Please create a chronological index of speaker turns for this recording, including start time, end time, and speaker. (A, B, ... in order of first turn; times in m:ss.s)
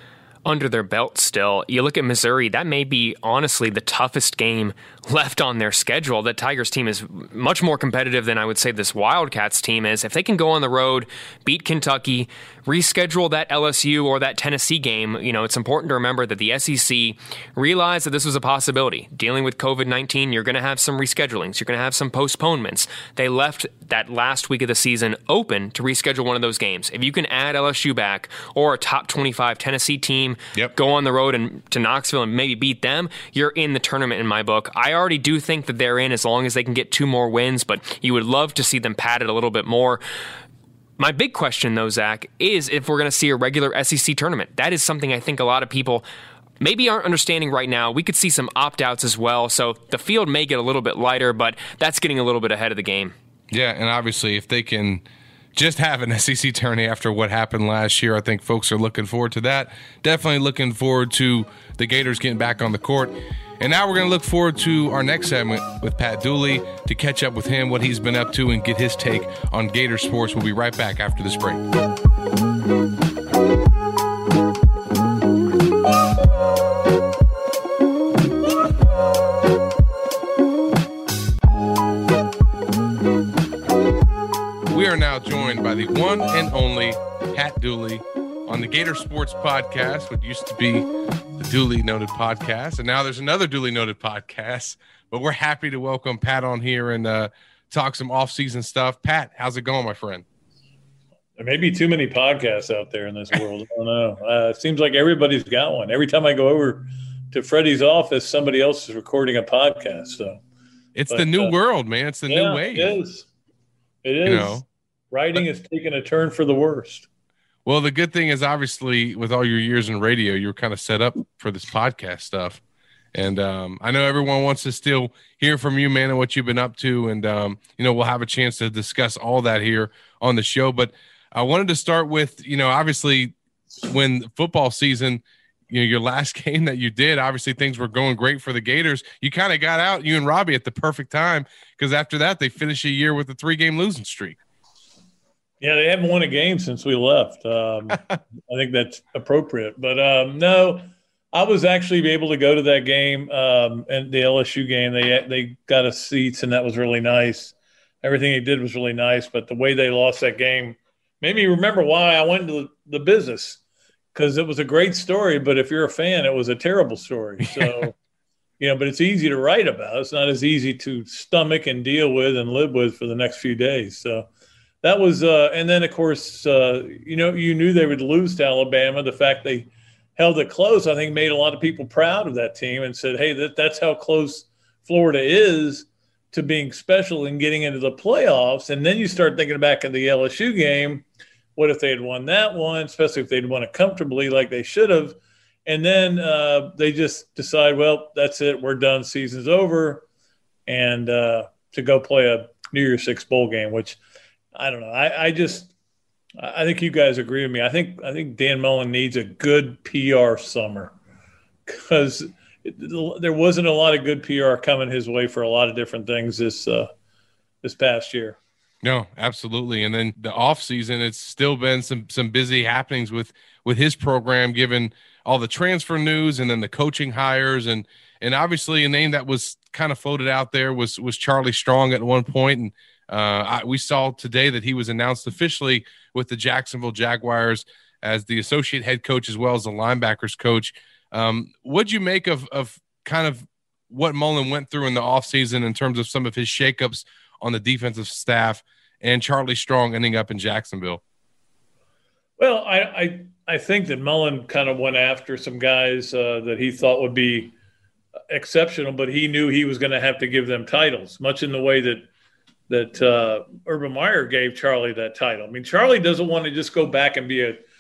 0:00.4-0:40.0 A
0:41.0-0:46.1 A
0:46.6-0:53.1 A
0:53.5-0:55.0 B
0:55.6-1:11.6 B
1:24.7-1:40.2 B
1:41.4-1:50.4 C
1:51.0-1:52.9 B
1:51.1-1:51.5 C
1:52.3-1:53.3 C
1:54.0-1:57.1 C
1:54.3-1:54.6 B
1:57.7-2:02.6 B
2:03.1-2:24.4 B
2:25.6-2:43.6 C
2:44.2-2:48.0 C
2:47.6-2:47.8 B
2:48.6-2:54.3 C
2:54.8-3:11.0 C
3:11.6-3:20.0 C
3:20.7-3:24.0 C
3:24.6-3:25.7 C
3:26.4-3:31.0 C
3:31.7-3:36.9 C
3:37.6-3:38.4 C
3:38.8-4:11.0 B
4:12.4-4:17.5 C
4:18.3-4:22.1 C
4:22.7-4:27.6 C